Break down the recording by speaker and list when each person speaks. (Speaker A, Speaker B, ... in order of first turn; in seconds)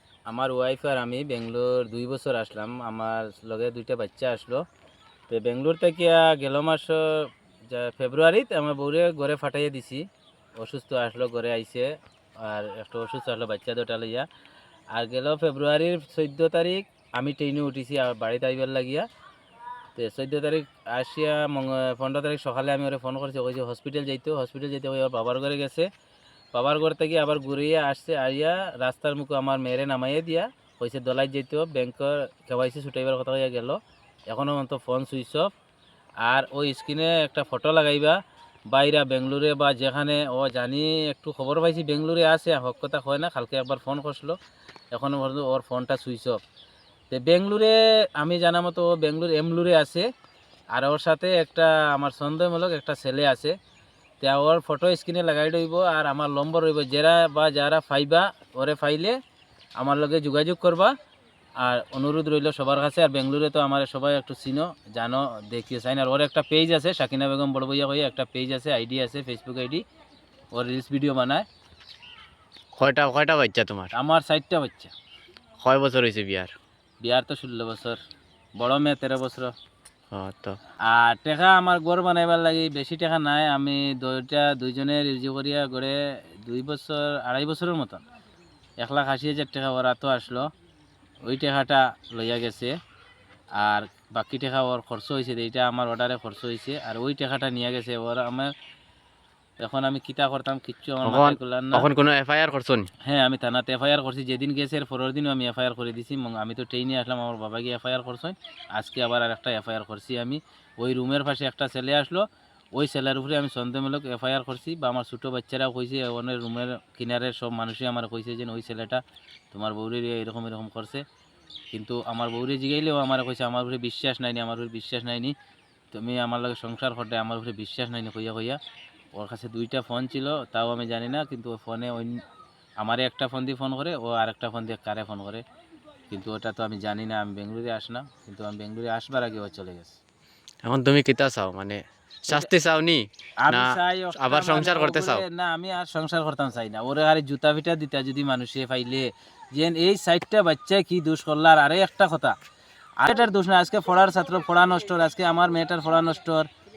Speaker A: 0.3-4.6, 5.3-10.1, 10.6-14.3, 14.9-19.1, 19.9-25.9, 26.5-35.5, 36.2-38.2, 38.7-44.4, 44.9-46.4, 47.1-50.1, 50.7-53.6, 54.2-59.2, 59.8-60.9, 61.6-69.8, 70.5-71.4, 73.9-74.9, 77.0-78.0, 78.6-79.5, 80.8-88.0, 88.8-90.5, 91.3-92.8, 93.6-98.5, 99.6-101.9, 103.0-121.0, 121.7-125.3, 125.9-128.6, 129.1-132.2, 132.8-135.4, 136.1-139.9, 143.4-152.3, 153.0-156.5
Speaker B: 72.8-73.9, 75.6-76.5, 80.1-80.6, 101.0-102.9, 140.6-145.2